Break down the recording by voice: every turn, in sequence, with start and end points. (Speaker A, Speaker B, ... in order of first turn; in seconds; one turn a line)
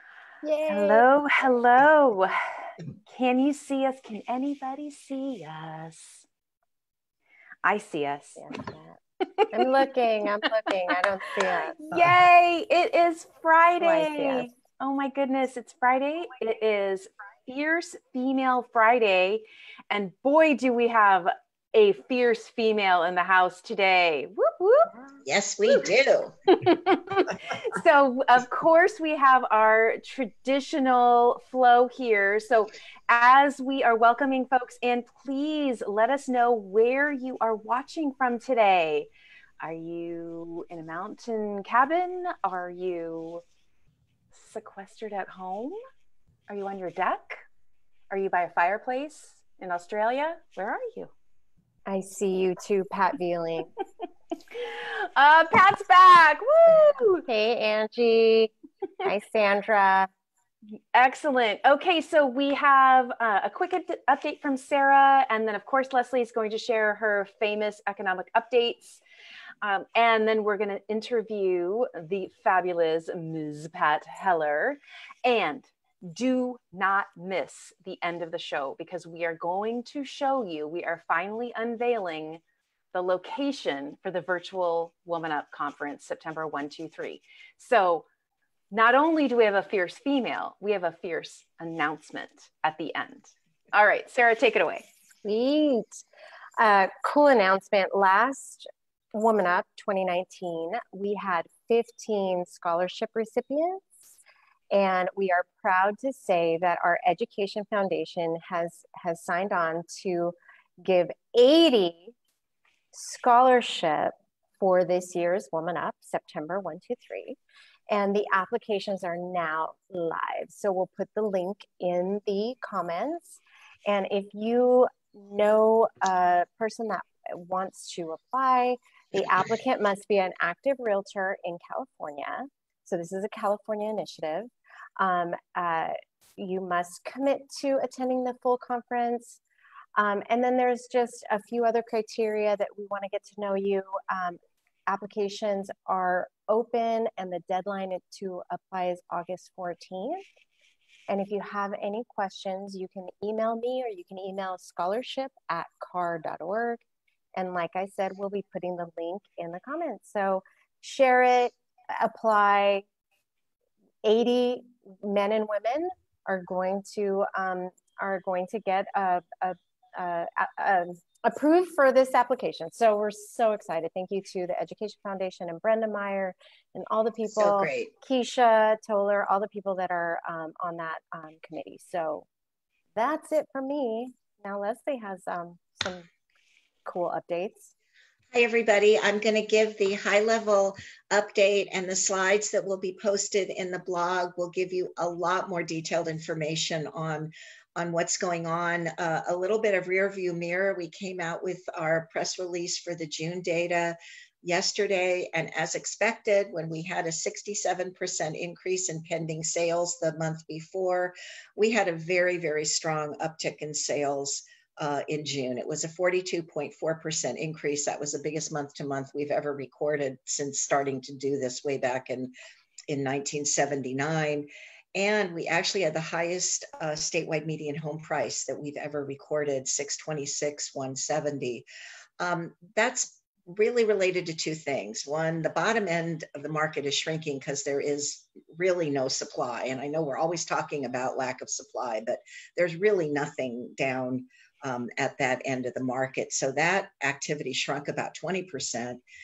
Speaker A: 0.4-1.1
Speaker B: 0.7-2.4
Speaker B: 3.1-6.2
Speaker B: 7.6-8.4
Speaker A: 8.4-9.0
Speaker A: 9.5-11.9
Speaker B: 11.7-24.9
Speaker A: 13.8-14.5
Speaker C: 25.2-26.3
Speaker B: 26.5-39.1
Speaker B: 39.6-43.4
Speaker B: 44.3-45.8
Speaker B: 46.5-47.4
Speaker B: 48.1-51.1
Speaker A: 51.9-53.7
Speaker B: 54.5-57.2
Speaker A: 57.3-58.5
Speaker A: 59.0-60.1
Speaker B: 60.9-69.0
Speaker B: 69.6-82.4
Speaker B: 82.9-88.0
Speaker B: 88.7-94.8
Speaker A: 95.2-96.0
Speaker A: 96.6-104.0
Speaker A: 104.7-112.1
Speaker A: 112.9-117.4
Speaker A: 117.9-139.4
Speaker A: 139.9-150.2
Speaker A: 151.1-156.8
Speaker A: 157.3-162.8
Speaker A: 164.0-182.3
Speaker C: 177.2-177.9
Speaker A: 182.9-186.1
Speaker A: 186.8-187.7
Speaker C: 188.3-222.3
Speaker C: 222.9-231.7
Speaker C: 232.2-249.0